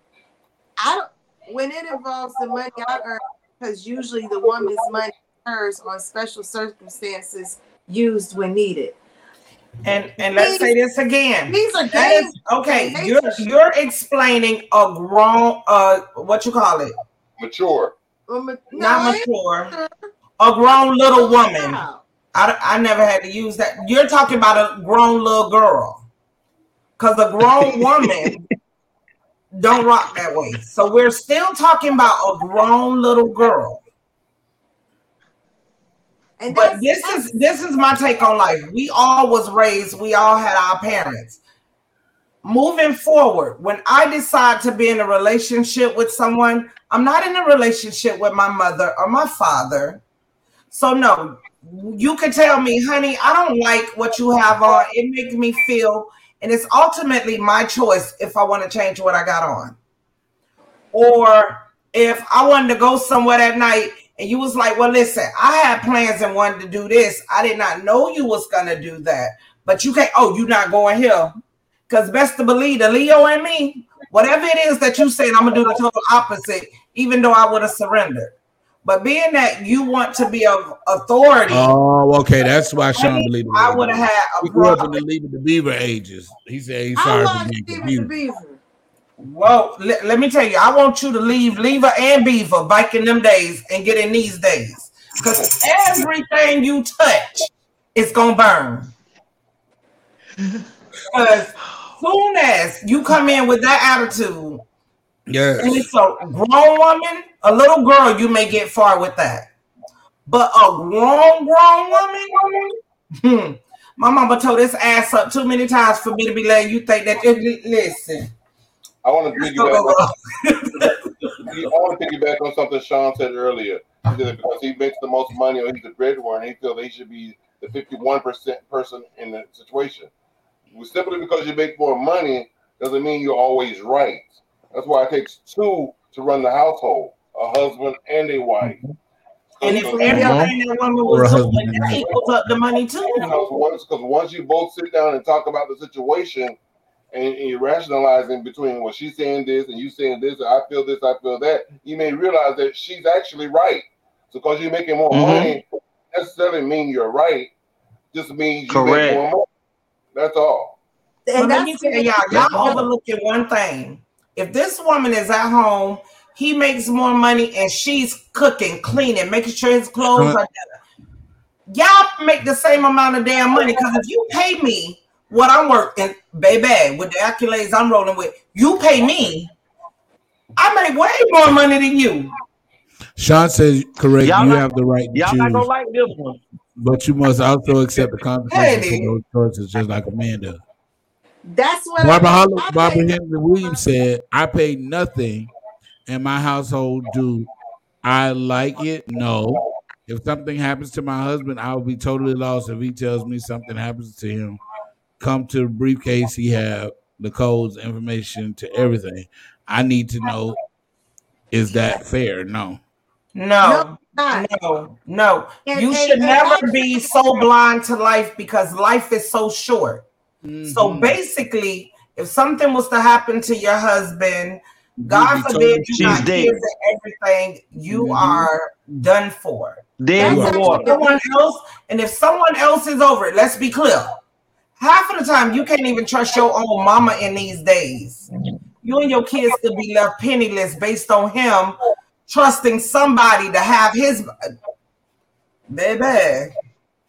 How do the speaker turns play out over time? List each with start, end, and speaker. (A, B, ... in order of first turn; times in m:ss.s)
0:00.8-0:09.0 A
0:09.8-0:17.0 B
0:10.2-0:10.7 A
0:11.5-0:13.5 A
0:17.4-0:17.9 C
0:18.3-0:20.0 A
0:18.7-0:19.7 B
0:20.4-0:26.0 B
0:20.7-0:22.0 A
0:27.0-0:28.4 B
0:27.6-0:28.4 D
0:29.5-0:33.8 B
0:36.4-0:37.4 A
0:36.5-0:41.4 B
0:42.4-0:50.0 B
0:50.7-0:59.8 B
1:00.9-1:11.4 B
1:11.9-1:18.3 B
1:18.8-1:21.7 B
1:21.5-1:28.1 E
1:23.0-1:24.9 B
1:27.0-1:28.6 A
1:29.2-1:38.9 B
1:41.1-1:44.6 B
1:45.3-1:45.9 E
1:45.6-1:49.5 B
1:50.3-1:58.3 B
1:59.0-2:00.0 C
1:59.4-2:01.4 B
2:01.5-2:10.1 C
2:10.7-2:18.8 C
2:19.6-2:20.5 C
2:19.6-2:23.4 B
2:20.0-2:20.5 E
2:21.1-2:22.0 E
2:23.2-2:26.6 C
2:27.1-2:37.5 C
2:35.1-2:35.6 D
2:38.1-2:39.4 C
2:38.7-2:39.2 D
2:40.1-2:40.7 C
2:41.3-2:42.8 A
2:41.4-2:50.8 B
2:42.3-2:42.9 E
2:50.1-2:50.4 E
2:51.7-2:59.5 B
3:00.6-3:02.3 B
3:03.2-3:05.7 E
3:04.2-3:06.4 D
3:06.8-3:10.6 E
3:08.5-3:09.1 B
3:11.5-3:13.8 A
3:12.0-3:15.5 E
3:16.1-3:17.5 E
3:18.0-3:24.6 E
3:25.2-3:30.6 E
3:31.5-3:32.8 E
3:33.4-3:40.1 B
3:33.6-3:34.5 A
3:35.7-3:37.1 A
3:40.4-3:41.2 E
3:40.6-3:54.2 B
3:45.0-3:46.4 E
3:45.9-3:46.6 D
3:47.9-3:48.5 E
3:50.0-3:50.9 D
3:50.2-3:51.2 A
3:50.2-3:50.7 E
3:54.8-3:58.3 B
3:58.8-4:04.3 B
4:05.7-4:06.5 B